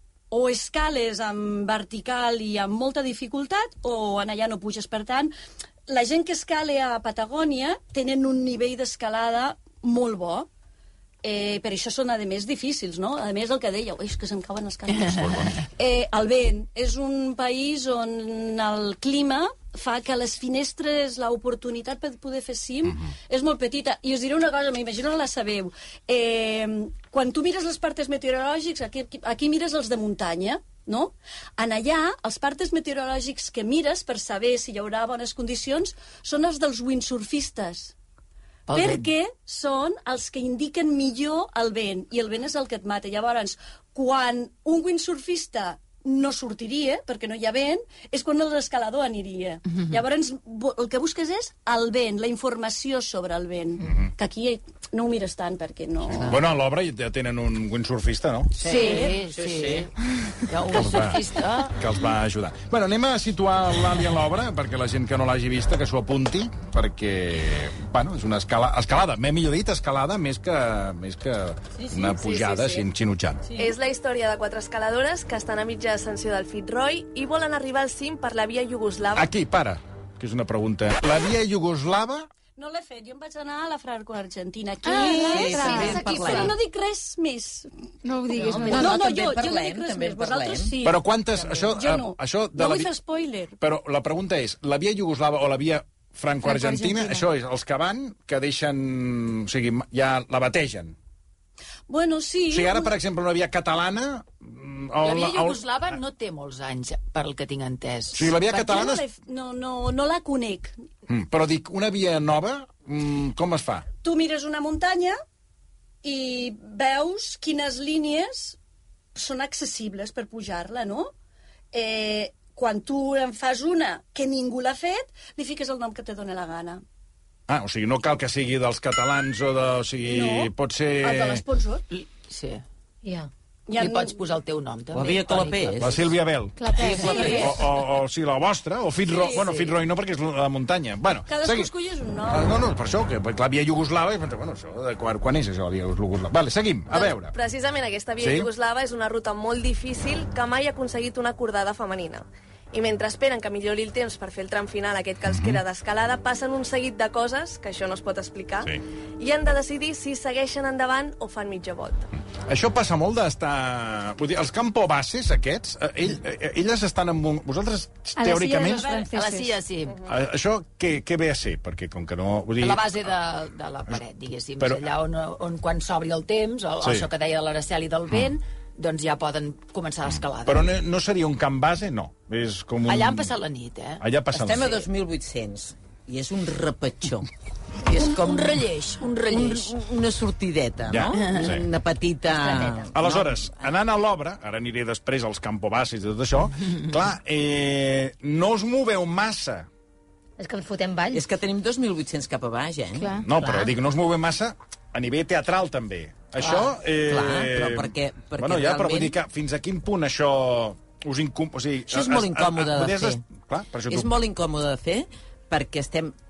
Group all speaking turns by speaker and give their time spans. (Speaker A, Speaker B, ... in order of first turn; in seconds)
Speaker A: 0.3-5.3, 5.9-10.5, 11.2-37.9, 38.7-56.4, 58.7-59.1, 82.6-87.7, 88.4-93.5, 101.9-102.9, 108.3-110.7, 114.0-115.2, 116.0-118.6, 119.1-121.1, 121.7-126.8, 130.0-131.8, 133.7-134.2, 139.1-139.5, 141.3-142.5, 168.7-169.1
Speaker B: 15.1-15.6, 53.8-54.1, 56.1-58.5, 60.7-73.4, 79.1-82.3, 90.8-92.9, 93.6-101.0, 102.5-105.9, 108.1-109.0, 111.1-113.8, 127.5-131.4, 135.8-141.7, 142.3-147.3, 148.2-148.5, 155.3-155.6, 162.5-168.9, 170.1-173.1, 174.6-174.9, 176.8-177.1, 180.4-183.3, 184.0-184.8, 190.9-191.7, 192.9-199.7, 203.2-214.1
Speaker C: 38.7-39.1, 58.6-59.9, 60.5-61.8, 71.9-72.7, 105.0-108.3, 131.9-132.6, 133.8-136.0, 136.8-137.5, 169.1-170.0, 172.6-180.7, 182.8-184.0, 187.9-189.7, 191.2-191.5
Speaker D: 58.6-59.9, 84.9-86.5, 88.4-90.7, 134.9-136.0, 137.0-137.3, 184.3-187.3, 187.8-188.7, 189.3-193.7, 201.1-203.2, 206.4-209.2, 211.9-213.2, 213.9-216.1
Speaker E: 73.5-79.3, 146.9-162.1
Speaker F: 84.8-86.5, 88.0-89.0, 96.4-97.2, 136.6-137.5, 168.2-169.6
Speaker G: 85.5-86.5, 88.4-89.0, 192.3-192.9, 200.4-201.2, 203.2-203.7